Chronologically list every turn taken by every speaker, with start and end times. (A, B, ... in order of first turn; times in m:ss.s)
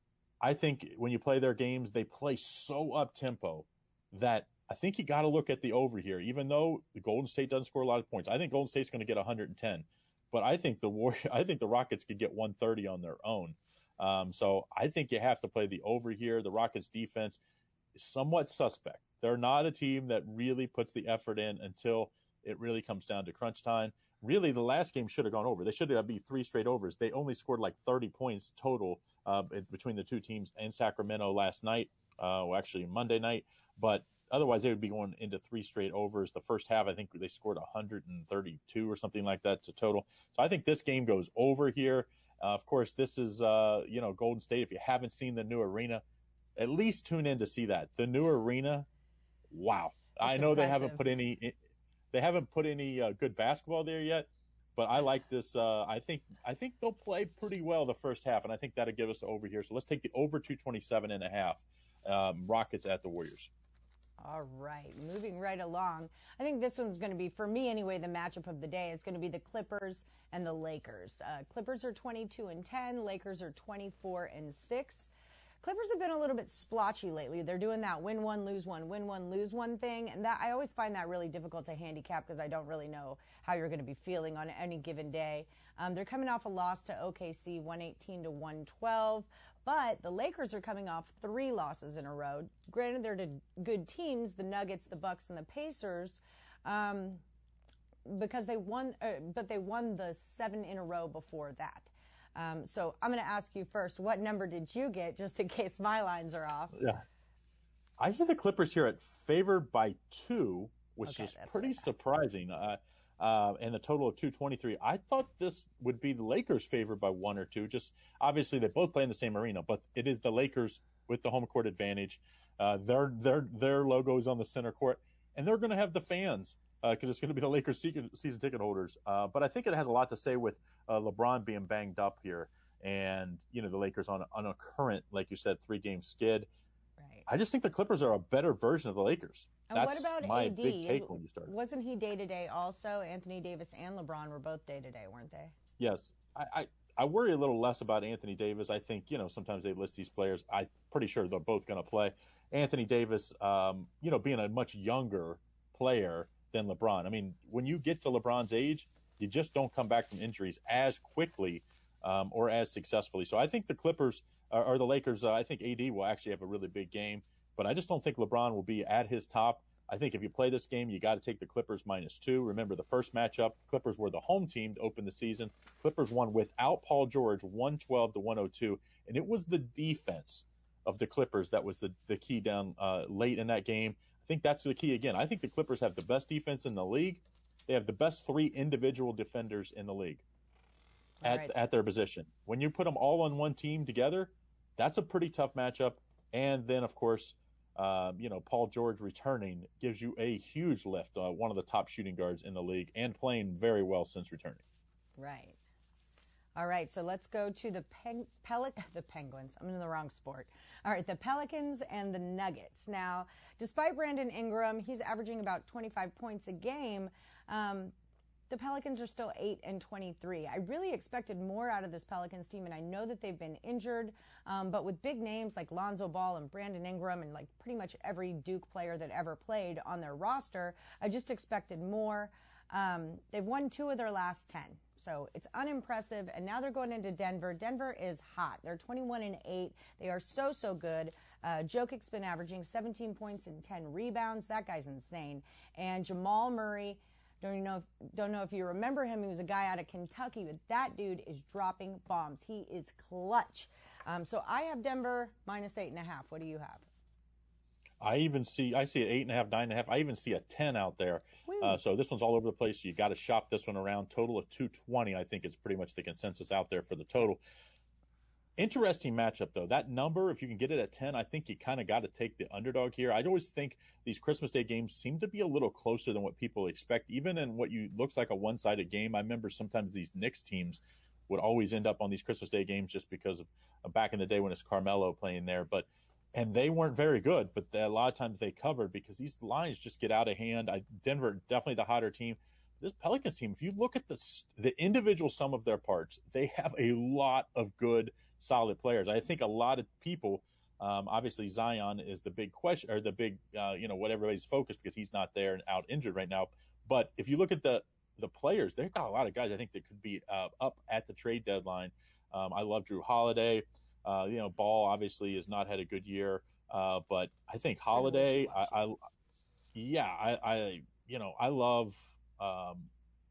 0:00.4-0:17.4 A
0:17.9-0:46.0 A
0:46.6-0:48.9 A
0:49.5-0:51.6 A
0:50.2-0:51.0 B
0:52.1-1:03.5 A
1:04.2-1:15.1 B
1:15.6-1:37.2 B
1:38.0-1:46.8 B
1:46.7-1:47.0 A
1:48.0-2:16.5 A
1:51.0-1:51.9 B
2:17.0-2:17.2 B
2:17.3-2:21.5 A
2:19.7-2:25.5 B
2:25.8-3:10.2 A
3:11.2-3:11.5 B
3:11.2-3:24.6 A
3:25.2-3:25.6 B
3:26.6-3:37.9 B
3:38.5-4:16.8 B
4:18.0-4:27.4 A
4:21.4-4:21.8 B
4:28.6-5:19.0 A
5:17.9-5:18.8 B
5:19.7-5:22.9 A